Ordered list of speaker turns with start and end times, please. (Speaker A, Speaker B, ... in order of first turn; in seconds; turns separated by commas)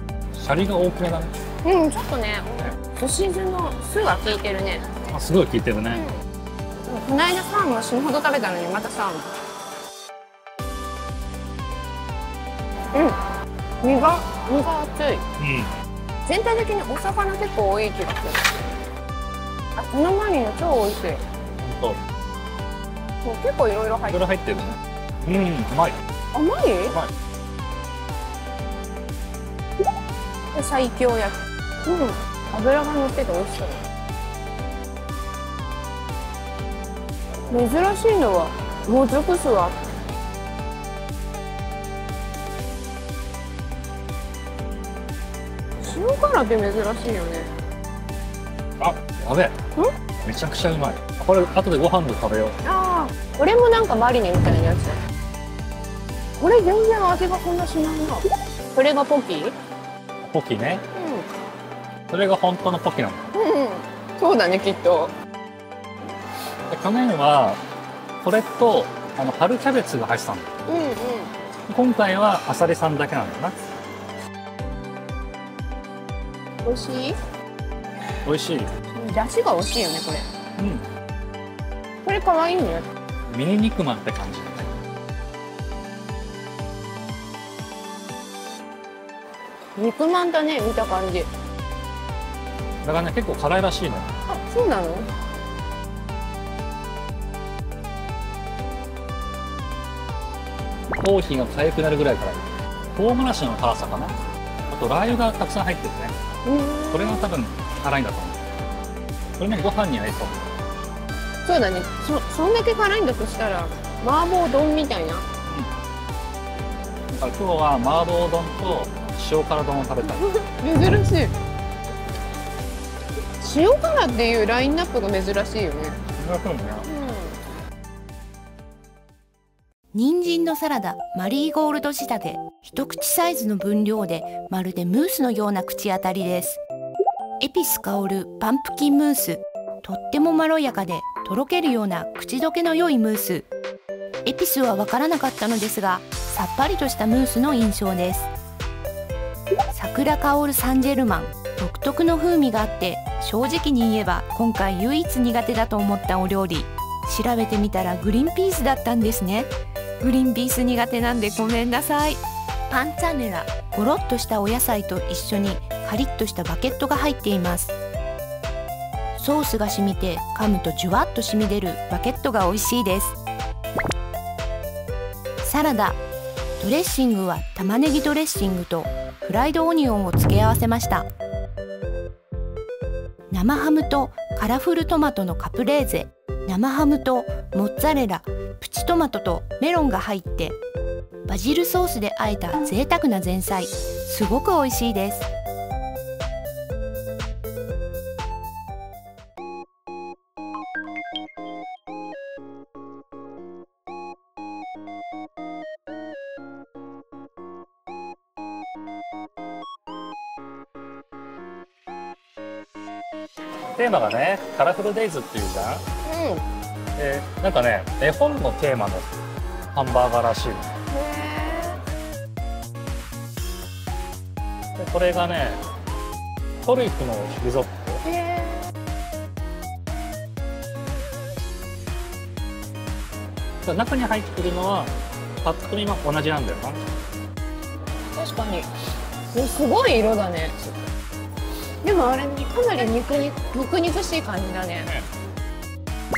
Speaker A: 0.3-1.3, Speaker B: 1.6-4.9, Speaker A: 5.1-6.0, Speaker B: 5.9-6.2, Speaker B: 6.9-9.3, Speaker B: 12.9-13.2, Speaker B: 13.8-15.2, Speaker A: 15.4-15.7, Speaker B: 16.3-18.6, Speaker B: 19.8-21.2, Speaker A: 21.6-22.0, Speaker B: 23.2-24.3, Speaker A: 24.1-26.0, Speaker B: 26.3-27.0, Speaker B: 30.5-33.8, Speaker B: 37.5-39.8, Speaker B: 45.8-47.5, Speaker A: 48.8-49.6, Speaker A: 50.2-52.6, Speaker B: 52.6-55.0, Speaker B: 56.4-59.5, Speaker A: 60.2-60.8, Speaker B: 60.9-61.3, Speaker A: 62.1-63.3, Speaker B: 63.3-65.1, Speaker A: 66.7-67.6, Speaker A: 68.2-70.5, Speaker B: 70.7-71.3, Speaker A: 71.7-73.6, Speaker B: 76.6-77.2, Speaker A: 78.2-78.7, Speaker B: 79.0-80.3, Speaker A: 80.6-80.9, Speaker B: 82.0-82.8, Speaker A: 83.3-84.7, Speaker B: 89.8-91.3, Speaker A: 92.8-94.1, Speaker B: 94.3-95.1, Speaker A: 101.0-104.2, Speaker A: 104.7-106.2, Speaker B: 106.5-107.3, Speaker A: 106.9-108.4, Speaker A: 109.4-110.4, Speaker B: 111.5-115.3, Speaker A: 117.2-120.3, Speaker B: 120.3-121.3, Speaker B: 123.4-126.0, Speaker A: 126.2-126.9, Speaker B: 126.9-127.4, Speaker C: 129.9-136.6, Speaker C: 137.4-143.5, Speaker C: 144.2-148.3, Speaker C: 149.7-167.8, Speaker C: 169.2-173.2, Speaker C: 175.4-176.0, Speaker C: 176.6-181.1, Speaker C: 183.3-190.6, Speaker C: 191.3-195.3, Speaker A: 213.8-215.8, Speaker B: 216.1-216.4, Speaker A: 217.0-219.1, Speaker A: 219.7-220.7, Speaker B: 220.9-221.8, Speaker A: 224.8-225.6, Speaker A: 226.6-228.0, Speaker B: 228.0-228.7, Speaker A: 233.6-236.8, Speaker B: 238.2-238.7, Speaker B: 239.3-240.6, Speaker B: 241.8-244.9